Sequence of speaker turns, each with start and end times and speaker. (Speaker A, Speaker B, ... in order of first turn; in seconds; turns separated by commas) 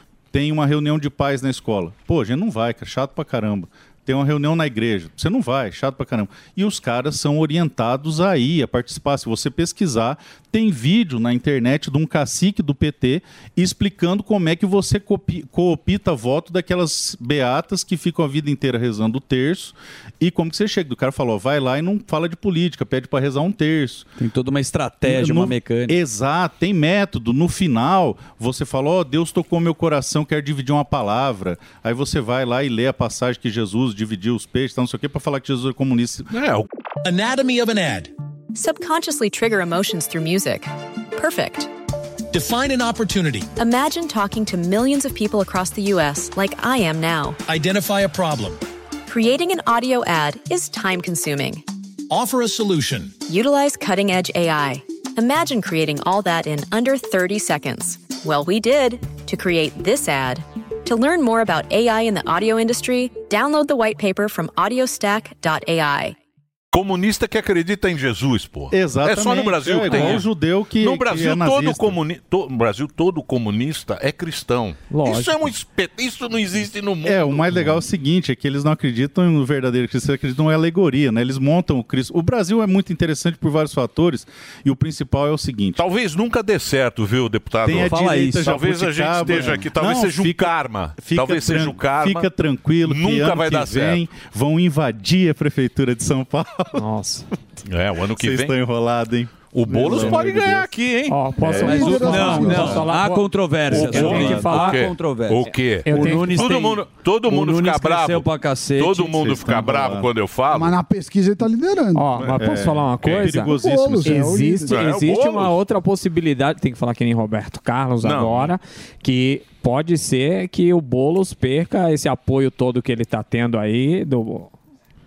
Speaker A: 0.3-24.1, Speaker B: 24.2-25.9, Speaker A: 25.1-36.3, Speaker C: 36.3-36.7, Speaker D: 37.0-38.1, Speaker E: 38.5-41.7, Speaker D: 42.3-43.5, Speaker E: 43.5-47.4, Speaker D: 47.5-48.6, Speaker E: 49.1-51.6, Speaker D: 52.1-53.1, Speaker E: 53.2-66.2, Speaker C: 66.7-77.7, Speaker A: 68.7-72.0, Speaker F: 69.9-70.2, Speaker F: 74.9-75.5, Speaker A: 77.0-85.8, Speaker C: 85.8-92.3, Speaker A: 87.6-96.8, Speaker B: 87.8-88.6, Speaker B: 89.3-89.6, Speaker C: 92.8-94.0, Speaker F: 96.8-97.2, Speaker C: 97.6-98.5, Speaker A: 98.2-100.7, Speaker C: 99.5-101.2, Speaker F: 101.1-104.8, Speaker A: 101.4-101.8, Speaker G: 101.6-102.8, Speaker B: 101.6-109.7, Speaker C: 103.7-110.8, Speaker F: 105.8-106.5, Speaker A: 109.4-110.1, Speaker G: 110.5-112.2, Speaker F: 111.9-124.5, Speaker C: 112.2-112.4, Speaker A: 112.3-114.2, Speaker C: 113.0-113.3, Speaker G: 113.5-114.8, Speaker C: 114.7-115.6, Speaker C: 118.0-118.5